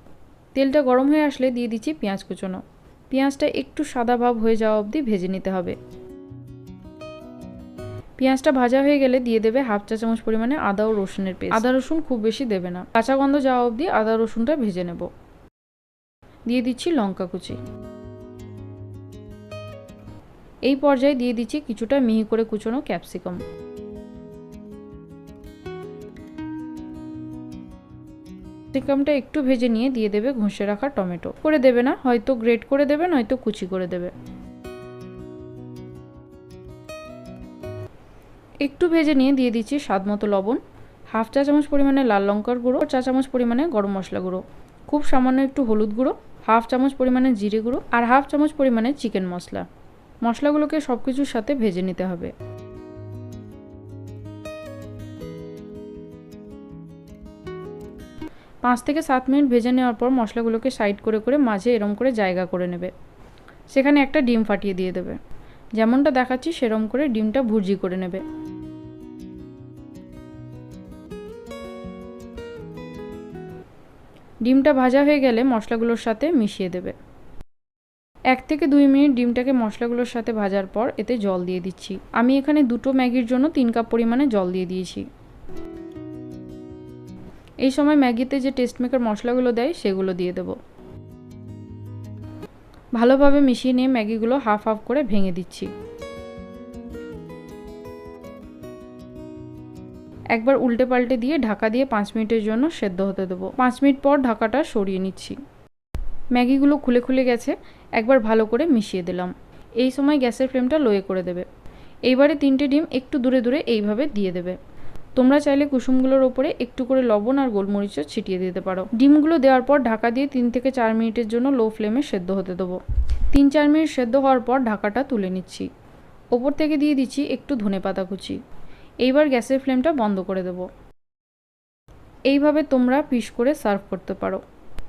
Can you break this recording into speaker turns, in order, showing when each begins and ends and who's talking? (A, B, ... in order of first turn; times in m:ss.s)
0:00.6-0:02.6 A
0:03.1-0:05.8 A
0:08.2-0:15.1 A
0:16.5-0:17.6 A
0:20.7-0:23.4 A
0:28.7-0:34.1 A
0:38.6-0:40.6 A
0:41.1-0:49.7 A
0:50.2-0:52.3 A
0:58.6-1:02.9 A
1:03.7-1:05.2 A
1:05.8-1:08.2 A
1:14.4-1:17.0 A
1:18.3-1:25.1 A
1:27.6-1:30.6 A
1:33.0-1:35.7 A
1:40.3-1:45.4 A
1:46.3-1:51.5 A
1:52.1-1:54.6 A
1:55.2-2:02.8 A
2:03.3-2:05.7 A
2:06.3-2:08.4 A
2:09.0-2:10.7 A
2:12.3-2:14.4 A